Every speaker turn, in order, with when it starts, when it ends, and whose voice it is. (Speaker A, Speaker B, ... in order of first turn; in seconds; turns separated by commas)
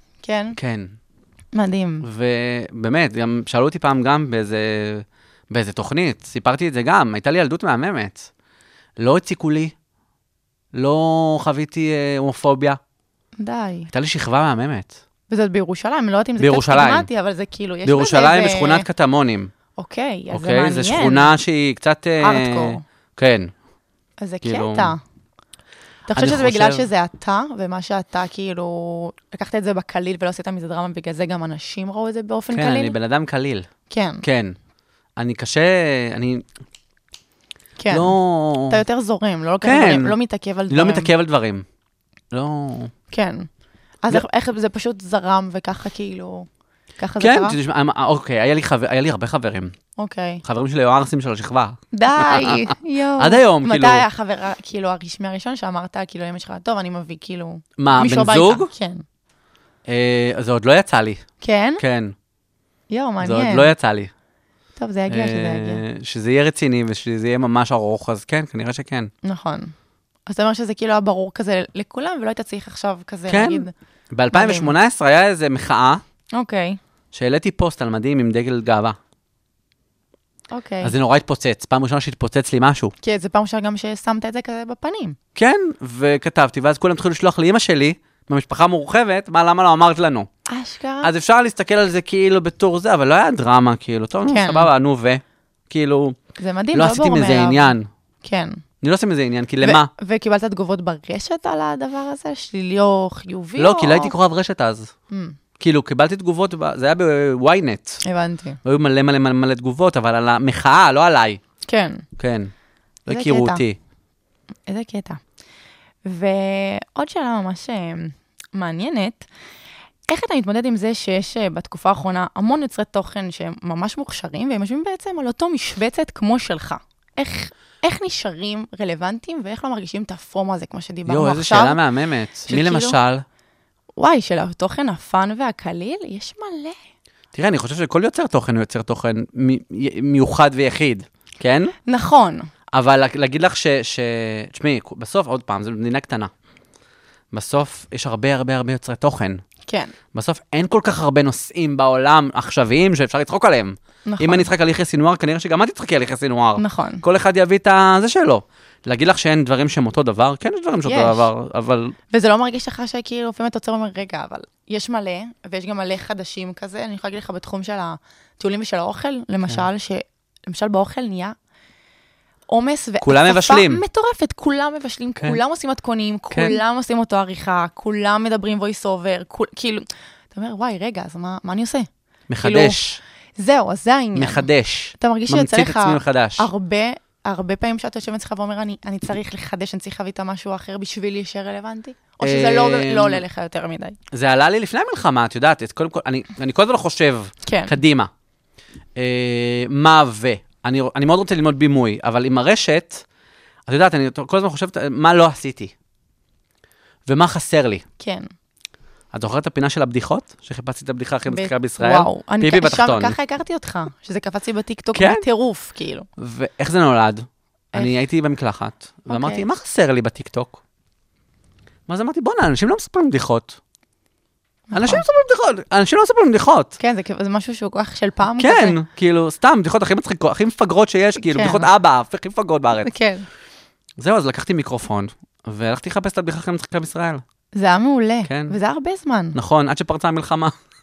Speaker A: 0.2-0.6, Speaker B: 0.6-0.9, Speaker A: 1.5-2.1, Speaker B: 2.0-8.3, Speaker B: 9.0-9.7, Speaker B: 10.7-12.8, Speaker A: 13.4-13.9, Speaker B: 13.9-15.0, Speaker A: 15.3-18.9, Speaker B: 16.4-17.1, Speaker B: 17.9-19.5, Speaker A: 19.8-21.3, Speaker B: 20.3-23.5, Speaker A: 22.2-22.8, Speaker A: 24.2-25.0, Speaker B: 24.4-24.9, Speaker A: 26.1-33.0, Speaker B: 26.1-26.9, Speaker B: 32.5-33.7, Speaker A: 33.9-34.2, Speaker B: 34.2-34.6, Speaker B: 35.2-36.5, Speaker A: 37.8-41.1, Speaker B: 37.9-38.8, Speaker B: 39.6-40.2, Speaker B: 40.7-41.7, Speaker B: 42.3-42.9, Speaker A: 43.1-43.5, Speaker A: 44.0-46.5, Speaker A: 47.0-47.6, Speaker B: 47.2-49.8, Speaker A: 50.0-50.4, Speaker B: 50.4-52.6, Speaker A: 51.9-59.0, Speaker B: 53.2-54.0, Speaker B: 57.8-58.7, Speaker B: 59.9-61.3, Speaker A: 61.4-61.8, Speaker B: 61.8-62.1, Speaker A: 62.9-63.7, Speaker B: 63.2-64.1, Speaker A: 64.8-65.8, Speaker B: 65.1-69.1, Speaker A: 69.2-69.7, Speaker A: 70.3-73.7, Speaker B: 73.3-76.0, Speaker A: 74.3-74.7, Speaker A: 76.3-76.8, Speaker B: 77.1-79.0, Speaker A: 80.5-80.9, Speaker B: 80.8-82.9, Speaker A: 83.0-85.2, Speaker B: 85.4-90.3, Speaker A: 90.5-91.1, Speaker B: 91.0-96.2, Speaker A: 94.2-94.7, Speaker A: 96.4-98.6, Speaker B: 96.7-97.9, Speaker B: 98.8-99.9, Speaker A: 99.6-104.1, Speaker B: 103.6-104.9, Speaker A: 105.1-105.4, Speaker B: 105.6-108.0, Speaker A: 108.0-108.6, Speaker B: 108.6-111.4, Speaker A: 111.7-112.0, Speaker B: 112.2-112.5, Speaker B: 113.1-113.8, Speaker A: 113.1-113.6, Speaker A: 114.7-115.2, Speaker A: 116.0-119.3, Speaker A: 120.1-131.8, Speaker B: 131.1-133.2, Speaker A: 132.5-133.0, Speaker A: 134.0-136.8, Speaker B: 137.3-141.7, Speaker A: 141.8-142.5, Speaker B: 142.7-146.3, Speaker B: 147.3-149.4, Speaker A: 149.7-149.9, Speaker B: 150.1-162.0, Speaker A: 154.1-154.5, Speaker A: 156.6-157.0, Speaker A: 160.8-161.3, Speaker A: 162.1-171.3, Speaker A: 172.5-181.9, Speaker B: 173.0-173.8, Speaker B: 176.3-176.6, Speaker B: 182.3-183.0, Speaker A: 182.4-182.8, Speaker A: 183.4-194.0, Speaker B: 184.2-186.5, Speaker B: 192.2-193.2, Speaker B: 194.1-198.1, Speaker A: 197.4-197.8, Speaker B: 199.0-203.0, Speaker B: 203.7-205.7, Speaker B: 207.1-207.8, Speaker A: 208.0-208.3, Speaker B: 209.1-213.2, Speaker A: 211.3-216.1, Speaker B: 214.9-215.3, Speaker B: 216.2-220.6, Speaker A: 219.1-219.4, Speaker B: 221.9-223.6, Speaker A: 224.7-225.1, Speaker B: 224.7-226.8, Speaker A: 226.8-228.8, Speaker B: 228.4-232.9, Speaker A: 231.2-231.7, Speaker A: 232.8-233.3, Speaker B: 234.0-237.2, Speaker A: 237.5-239.4, Speaker B: 238.2-238.6, Speaker B: 239.3-240.6